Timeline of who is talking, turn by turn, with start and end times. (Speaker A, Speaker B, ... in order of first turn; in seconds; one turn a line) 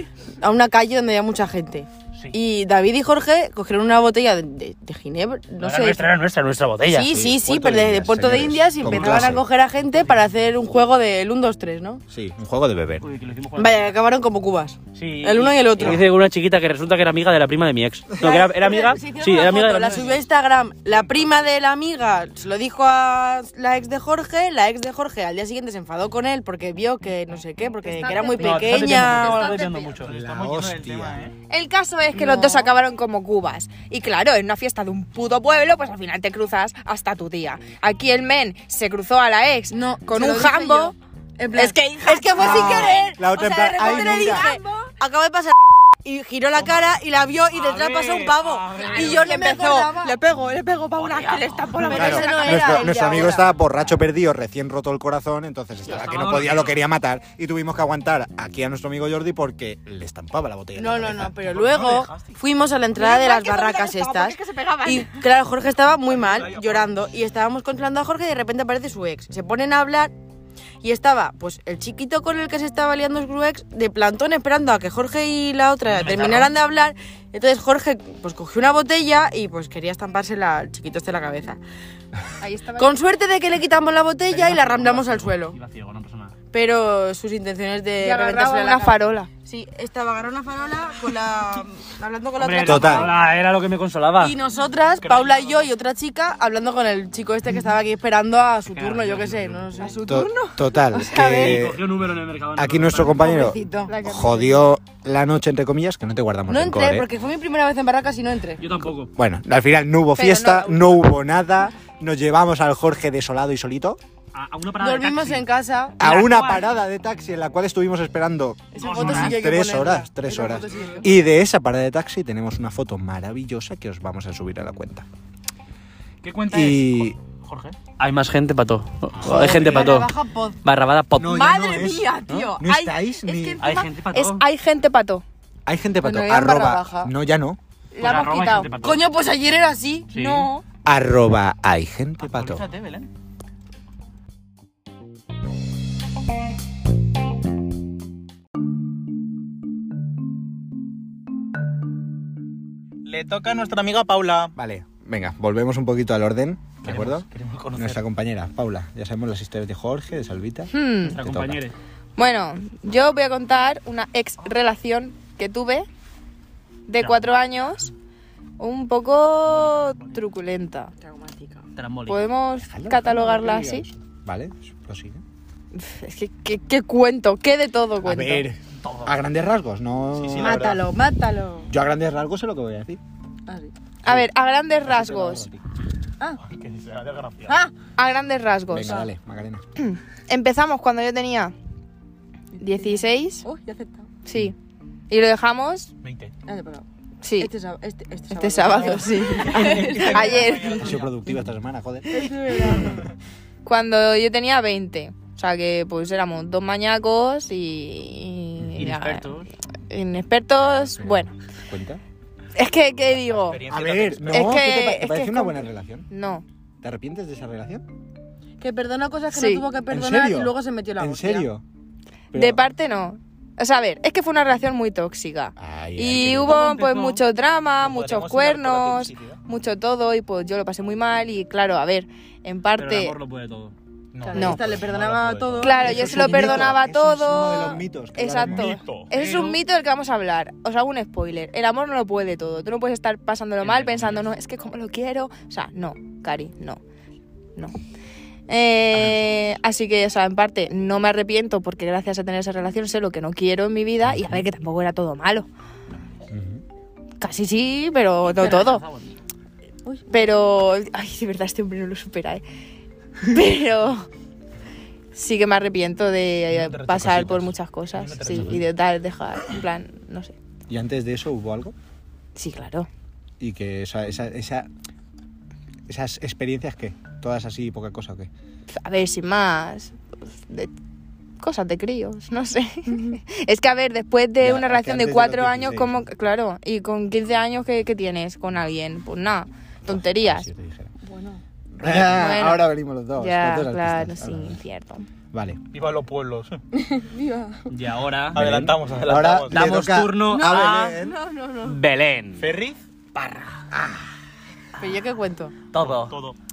Speaker A: 0.4-6.1
Speaker B: 5.6-7.1
Speaker A: 6.9-12.0
Speaker C: 7.1-9.4
Speaker B: 8.9-9.3
Speaker B: 9.9-10.2
Speaker C: 12.1-13.0
Speaker B: 13.0-14.0
Speaker A: 13.6-16.0
Speaker B: 14.9-20.2
Speaker C: 15.8-16.0
Speaker A: 18.2-29.6
Speaker D: 27.8-29.9
Speaker B: 28.3-30.1
Speaker E: 29.9-31.3
Speaker C: 30.0-31.2
Speaker D: 31.5-40.9
Speaker A: 32.1-32.7
Speaker A: 39.7-50.2
Speaker D: 41.5-43.1
Speaker C: 42.4-44.5
Speaker D: 43.9-44.6
Speaker B: 47.5-49.5
Speaker D: 48.8-53.2
Speaker B: 51.0-52.5
Speaker A: 51.7-53.5
Speaker C: 51.9-61.4
Speaker B: 55.9-56.8
Speaker E: 56.1-56.7
Speaker A: 60.7-70.1
Speaker E: 61.4-62.4
Speaker D: 62.9-65.2
Speaker E: 66.0-67.1
Speaker A: 70.8-81.6
Speaker B: 75.8-76.5
Speaker D: 82.4-83.0
Speaker A: 82.8-85.6
Speaker B: 84.3-86.3
Speaker A: 86.5-93.2
Speaker D: 88.0-89.3
Speaker B: 92.4-94.4
Speaker C: 92.6-93.1
Speaker A: 94.2-101.7
Speaker E: 95.0-95.7
Speaker B: 98.7-100.0
Speaker D: 99.8-100.5
Speaker C: 100.0-101.8
Speaker B: 101.2-103.3
Speaker C: 102.5-107.0
Speaker A: 103.1-103.9
Speaker D: 103.9-104.7
Speaker A: 106.5-108.6
Speaker B: 108.6-109.1
Speaker C: 109.1-114.0
Speaker D: 110.1-111.0
Speaker B: 114.3-115.5
Speaker A: 114.8-116.1
Speaker C: 116.0-125.0
Speaker B: 116.0-116.6
Speaker A: 118.7-121.2
Speaker E: 118.8-119.3
Speaker B: 118.8-119.3
Speaker E: 120.7-121.0
Speaker E: 126.2-127.8
Speaker C: 126.5-127.2
Speaker B: 128.0-130.1
Speaker A: 129.2-130.6
Speaker E: 129.3-129.9
Speaker B: 130.6-131.5
Speaker C: 131.2-133.7
Speaker A: 131.3-133.9
Speaker D: 133.4-135.2
Speaker B: 133.6-134.4
Speaker C: 135.7-137.6
Speaker A: 136.0-137.1
Speaker D: 137.9-138.7
Speaker B: 138.0-139.0
Speaker A: 138.8-140.1
Speaker B: 140.1-140.5
Speaker D: 140.1-140.6
Speaker C: 140.8-142.7
Speaker E: 142.2-143.1
Speaker E: 153.0-154.5
Speaker C: 154.6-161.6
Speaker E: 156.8-158.0
Speaker D: 160.7-161.2
Speaker B: 161.0-161.7
Speaker D: 162.2-165.9
Speaker D: 166.9-167.9
Speaker D: 168.6-170.9
Speaker E: 169.5-170.2
Speaker A: 171.0-171.7
Speaker B: 171.8-172.3
Speaker D: 172.1-173.9
Speaker C: 172.6-175.2
Speaker D: 175.7-178.4
Speaker C: 178.0-180.6
Speaker E: 178.8-179.1
Speaker E: 180.1-180.8
Speaker A: 180.4-181.7
Speaker C: 181.7-183.0
Speaker A: 183.5-183.7
Speaker D: 184.0-185.4
Speaker C: 184.8-185.6
Speaker E: 186.4-187.6
Speaker A: 187.5-187.7
Speaker D: 188.0-189.1
Speaker C: 188.7-189.7
Speaker D: 189.8-191.5
Speaker D: 192.6-193.4
Speaker A: 192.6-194.1
Speaker D: 194.2-194.5
Speaker D: 195.1-195.9
Speaker E: 196.0-196.3
Speaker A: 196.4-196.8
Speaker D: 197.2-197.5
Speaker A: 197.4-200.6
Speaker D: 198.3-201.0
Speaker E: 199.3-201.1
Speaker C: 200.8-203.0
Speaker A: 202.1-203.1
Speaker D: 203.6-209.3
Speaker C: 208.6-208.9
Speaker B: 208.8-209.5
Speaker D: 209.9-211.3
Speaker C: 210.6-212.0
Speaker D: 212.5-213.6
Speaker E: 213.4-214.6
Speaker C: 213.7-216.1
Speaker D: 214.3-216.4
Speaker C: 216.8-217.8
Speaker A: 218.6-221.5
Speaker D: 219.3-219.7
Speaker C: 219.9-221.6
Speaker C: 222.3-222.6
Speaker D: 222.3-233.2
Speaker C: 225.6-226.6
Speaker B: 226.5-227.2
Speaker E: 227.8-229.4
Speaker B: 232.8-233.7
Speaker E: 234.1-236.1
Speaker A: 234.2-236.7
Speaker D: 234.3-234.6
Speaker D: 235.6-246.8
Speaker C: 235.8-238.8
Speaker E: 238.3-239.1
Speaker B: 239.1-239.6
Speaker B: 243.6-244.2
Speaker D: 248.5-255.5
Speaker C: 254.0-254.5
Speaker C: 256.3-256.6
Speaker D: 257.2-258.8
Speaker B: 258.3-259.1
Speaker D: 260.1-262.4
Speaker D: 263.2-264.1
Speaker D: 265.1-270.3
Speaker E: 266.5-268.6
Speaker C: 268.3-268.6
Speaker C: 270.7-271.7
Speaker D: 272.3-272.9
Speaker C: 273.4-274.7
Speaker C: 275.9-278.3
Speaker D: 278.8-280.7
Speaker D: 281.4-290.5
Speaker C: 284.4-286.0
Speaker C: 289.9-290.9
Speaker A: 291.0-291.4
Speaker C: 291.8-294.6
Speaker D: 292.0-292.6
Speaker D: 293.2-295.1
Speaker C: 295.3-295.6
Speaker E: 295.7-296.6
Speaker A: 296.8-297.6
Speaker B: 297.7-298.4
Speaker E: 297.8-299.6
Speaker C: 298.3-301.2
Speaker B: 299.5-300.9
Speaker A: 300.3-301.8
Speaker B: 301.6-302.5
Speaker E: 302.4-302.8
Speaker B: 303.1-303.6
Speaker C: 303.7-304.0
Speaker A: 304.8-305.5
Speaker B: 305.7-306.1
Speaker E: 305.8-306.4